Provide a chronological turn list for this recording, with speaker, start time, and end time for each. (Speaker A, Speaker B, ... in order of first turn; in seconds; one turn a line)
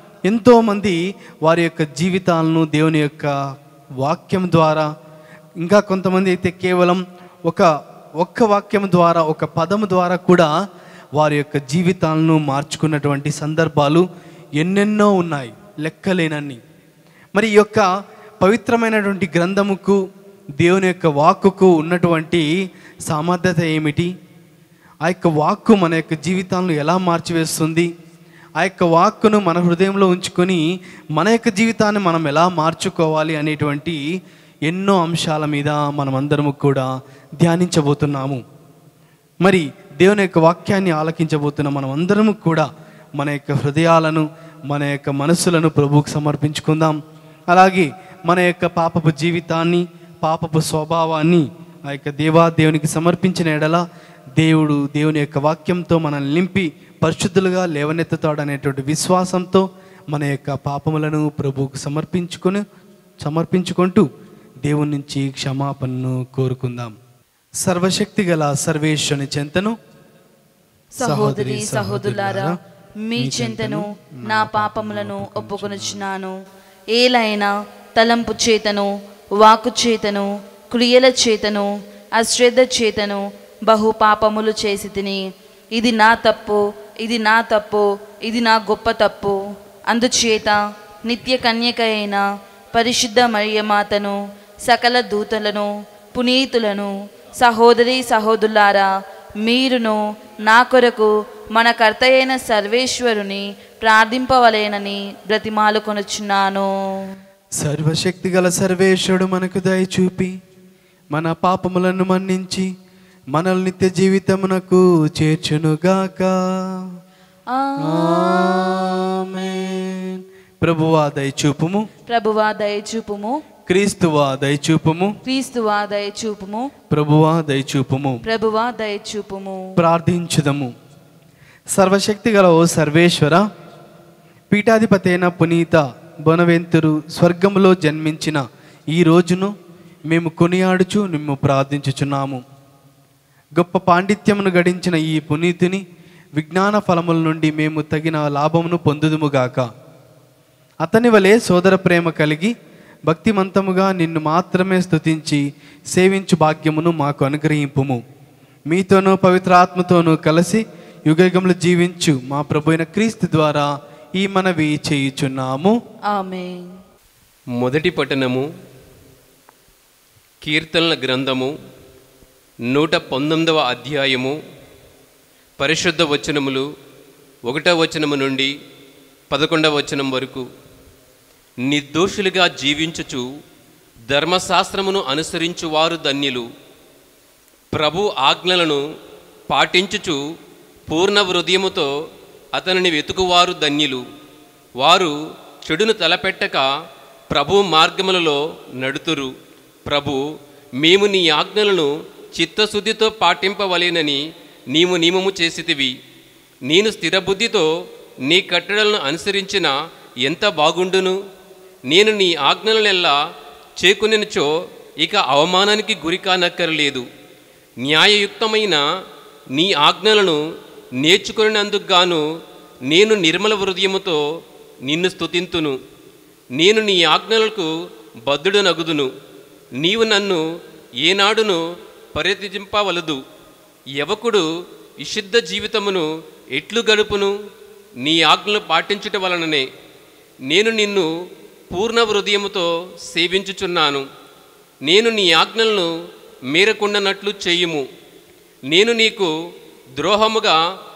Speaker A: 0.3-3.3
Speaker A: 4.0-4.9
Speaker A: 5.6-10.5
Speaker A: 11.2-14.1
Speaker A: 14.6-16.6
Speaker A: 17.4-17.9
Speaker A: 18.4-20.0
Speaker A: 20.6-22.5
Speaker A: 23.1-24.1
Speaker A: 25.1-27.9
Speaker A: 28.6-30.6
Speaker A: 31.1-34.0
Speaker A: 34.7-38.4
Speaker A: 39.4-47.0
Speaker A: 47.5-53.8
Speaker A: 54.4-62.6
Speaker A: 63.2-64.1
Speaker A: 64.6-67.0
Speaker A: 67.6-69.8
Speaker B: 71.0-76.3
Speaker A: 71.0-72.6
Speaker A: 73.2-76.0
Speaker B: 76.9-85.2
Speaker B: 85.8-89.4
Speaker B: 89.9-98.9
Speaker B: 99.4-106.7
Speaker A: 107.6-110.3
Speaker A: 111.1-112.7
Speaker A: 113.3-116.9
Speaker B: 117.5-118.8
Speaker A: 117.8-121.9
Speaker B: 122.1-123.4
Speaker A: 123.7-125.2
Speaker B: 125.3-126.7
Speaker A: 126.9-128.2
Speaker B: 128.2-129.8
Speaker A: 129.8-130.7
Speaker A: 131.8-133.4
Speaker A: 134.5-138.4
Speaker A: 138.9-139.5
Speaker A: 140.1-142.4
Speaker A: 143.6-145.8
Speaker A: 146.4-149.7
Speaker A: 150.8-152.5
Speaker A: 153.1-158.0
Speaker A: 158.7-165.8
Speaker B: 166.1-166.8
Speaker C: 167.6-168.4
Speaker C: 170.4-171.5
Speaker C: 172.7-174.3
Speaker C: 175.6-176.7
Speaker C: 177.5-178.5
Speaker C: 179.3-180.4
Speaker C: 181.7-183.3
Speaker C: 184.1-186.5
Speaker C: 187.7-188.8
Speaker C: 189.5-190.2
Speaker C: 190.9-191.9
Speaker C: 192.6-194.0
Speaker C: 194.8-196.7
Speaker C: 197.3-199.3
Speaker C: 199.9-200.2
Speaker C: 200.8-204.2
Speaker C: 204.7-205.9
Speaker C: 206.7-207.7
Speaker C: 208.3-209.7
Speaker C: 210.3-211.2
Speaker C: 211.9-213.2
Speaker C: 213.8-214.5
Speaker C: 215.0-217.1
Speaker C: 217.8-218.8
Speaker C: 219.6-220.4
Speaker C: 221.0-222.2
Speaker C: 222.9-224.2
Speaker C: 224.9-225.8
Speaker C: 226.6-227.7
Speaker C: 228.3-229.1
Speaker C: 229.8-230.4
Speaker C: 231.0-231.6
Speaker C: 232.2-233.2
Speaker C: 234.0-234.5
Speaker C: 235.0-237.3
Speaker C: 238.0-239.7
Speaker C: 240.5-241.1
Speaker C: 241.7-244.1
Speaker C: 244.9-245.9
Speaker C: 246.5-247.8
Speaker C: 248.7-249.3
Speaker C: 250.0-250.6